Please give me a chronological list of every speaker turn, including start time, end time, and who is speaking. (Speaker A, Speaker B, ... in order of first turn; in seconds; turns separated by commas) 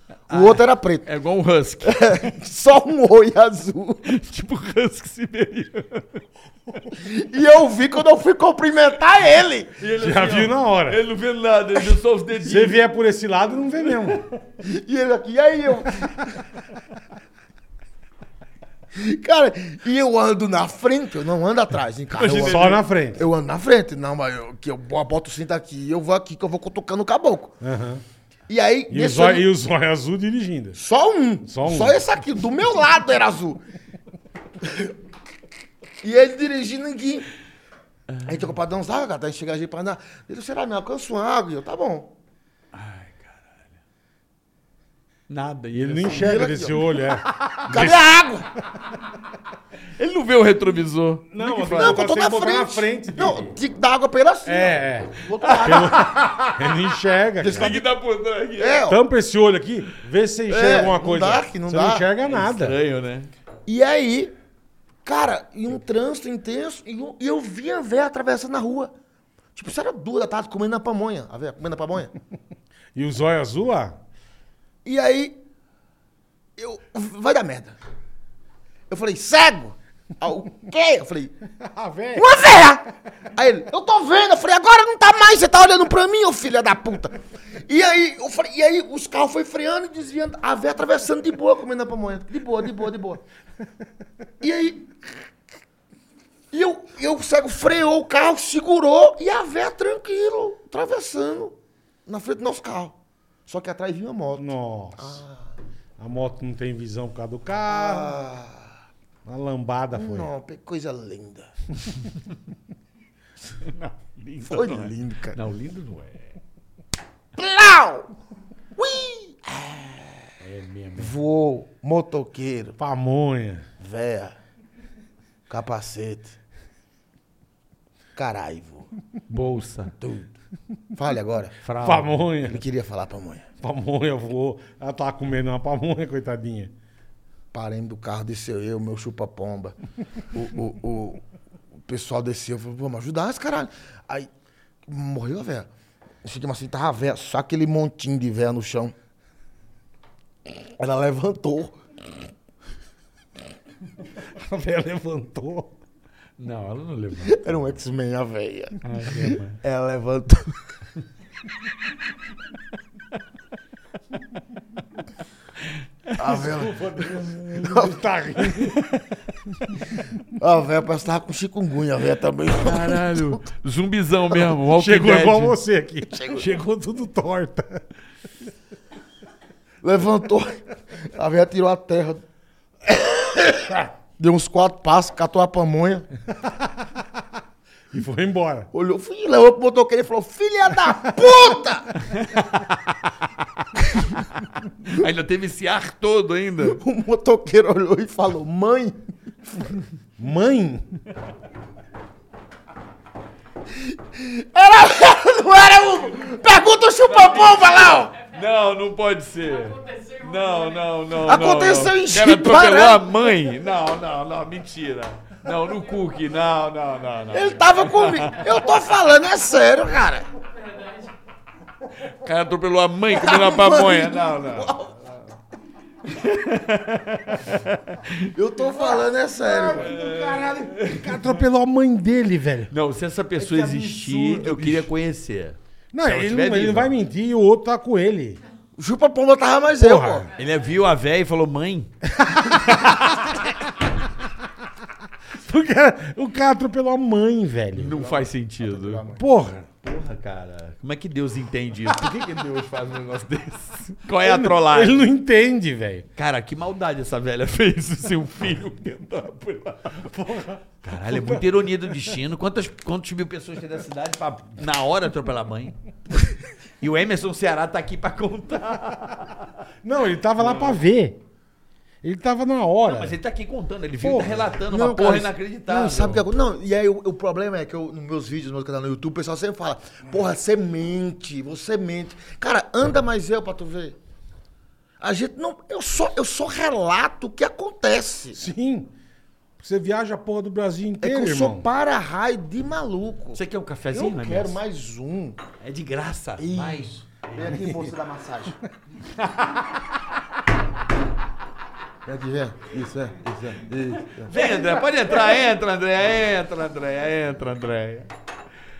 Speaker A: 0.3-2.3, Speaker B: 0.3-1.1, Speaker B: 1.8-4.0, Speaker A: 4.0-6.2, Speaker B: 6.9-9.7, Speaker A: 9.8-12.8, Speaker C: 10.0-11.0, Speaker C: 12.4-14.2, Speaker B: 14.6-16.4, Speaker B: 18.9-27.6, Speaker A: 22.1-22.8, Speaker C: 22.2-23.2, Speaker C: 27.6-28.0, Speaker B: 28.5-29.5, Speaker C: 28.9-30.8, Speaker B: 30.8-33.6, Speaker C: 31.4-32.0, Speaker B: 34.6-34.9, Speaker B: 36.0-37.3, Speaker B: 38.2-42.1, Speaker A: 42.7-43.8, Speaker A: 45.3-47.7, Speaker C: 45.8-48.1, Speaker B: 46.1-47.0, Speaker B: 47.7-48.5, Speaker A: 50.0-52.0, Speaker C: 51.3-53.5, Speaker B: 51.6-56.1, Speaker C: 54.5-57.8, Speaker A: 55.4-56.8, Speaker B: 57.4-57.8, Speaker A: 57.4-58.8, Speaker B: 58.6-59.0, Speaker C: 58.9-62.8, Speaker B: 60.5-62.0, Speaker A: 62.2-63.3, Speaker B: 63.7-64.3, Speaker B: 65.0-68.9, Speaker B: 69.5-72.1, Speaker C: 73.0-74.0, Speaker B: 74.8-75.4, Speaker B: 76.6-77.8, Speaker B: 78.9-81.3, Speaker C: 81.6-82.3, Speaker B: 82.2-93.2, Speaker B: 94.4-95.0, Speaker B: 96.5-103.0, Speaker B: 103.5-105.5, Speaker C: 104.4-105.2, Speaker C: 106.0-108.2, Speaker B: 107.7-108.7, Speaker C: 109.2-110.3, Speaker B: 109.9-111.5, Speaker A: 113.5-116.3, Speaker B: 114.4-115.4, Speaker B: 117.4-118.1, Speaker B: 118.8-120.3, Speaker C: 120.4-121.1, Speaker B: 121.0-122.8, Speaker C: 122.8-123.7, Speaker B: 123.8-124.4, Speaker B: 125.5-126.4, Speaker B: 128.2-128.9, Speaker A: 129.3-130.3, Speaker B: 131.0-131.6, Speaker A: 131.6-132.3, Speaker C: 131.8-132.6, Speaker B: 132.4-133.5, Speaker C: 133.6-136.7, Speaker B: 137.5-139.8, Speaker B: 140.3-141.2, Speaker B: 141.9-144.3, Speaker B: 144.9-145.7, Speaker B: 146.2-148.9, Speaker B: 150.8-151.8, Speaker C: 154.3-155.7, Speaker A: 156.4-157.5, Speaker B: 157.2-160.6, Speaker A: 158.8-159.6, Speaker B: 166.2-168.0, Speaker C: 166.2-168.9, Speaker B: 170.4-173.4, Speaker A: 172.6-175.6, Speaker C: 174.7-177.8, Speaker B: 176.1-176.5, Speaker B: 179.8-182.2, Speaker B: 182.8-186.1, Speaker C: 187.9-188.7, Speaker B: 188.7-192.1, Speaker A: 194.8-196.8, Speaker B: 196.6-199.8, Speaker C: 200.2-201.0, Speaker B: 203.8-208.1, Speaker A: 207.1-218.6, Speaker B: 211.2-213.1, Speaker B: 217.3-220.3, Speaker A: 222.2-224.8, Speaker B: 223.1-225.1, Speaker A: 226.0-228.3, Speaker B: 228.3-230.0, Speaker C: 229.4-232.7, Speaker A: 229.7-231.4, Speaker A: 232.7-236.9, Speaker C: 233.4-234.9, Speaker C: 235.9-238.4, Speaker B: 238.8-240.3, Speaker C: 239.8-240.3, Speaker A: 240.4-241.9, Speaker C: 242.2-243.1, Speaker C: 245.4-248.0, Speaker A: 247.7-249.0, Speaker B: 247.9-249.3, Speaker C: 249.2-249.7, Speaker A: 249.8-255.1, Speaker C: 254.2-256.1, Speaker A: 256.2-260.2, Speaker C: 260.1-261.4, Speaker A: 260.8-265.8, Speaker A: 266.8-269.5, Speaker C: 269.8-271.2, Speaker A: 270.4-270.8, Speaker C: 272.0-273.2, Speaker A: 272.9-276.2, Speaker C: 274.0-274.5, Speaker B: 274.7-284.0, Speaker B: 285.0-288.4, Speaker C: 288.4-288.9, Speaker C: 289.6-291.7, Speaker B: 291.0-293.4, Speaker A: 293.3-294.6, Speaker B: 293.9-295.4, Speaker A: 295.6-297.6, Speaker B: 296.4-298.6, Speaker A: 299.1-299.7, Speaker B: 302.1-304.4, Speaker A: 304.2-308.1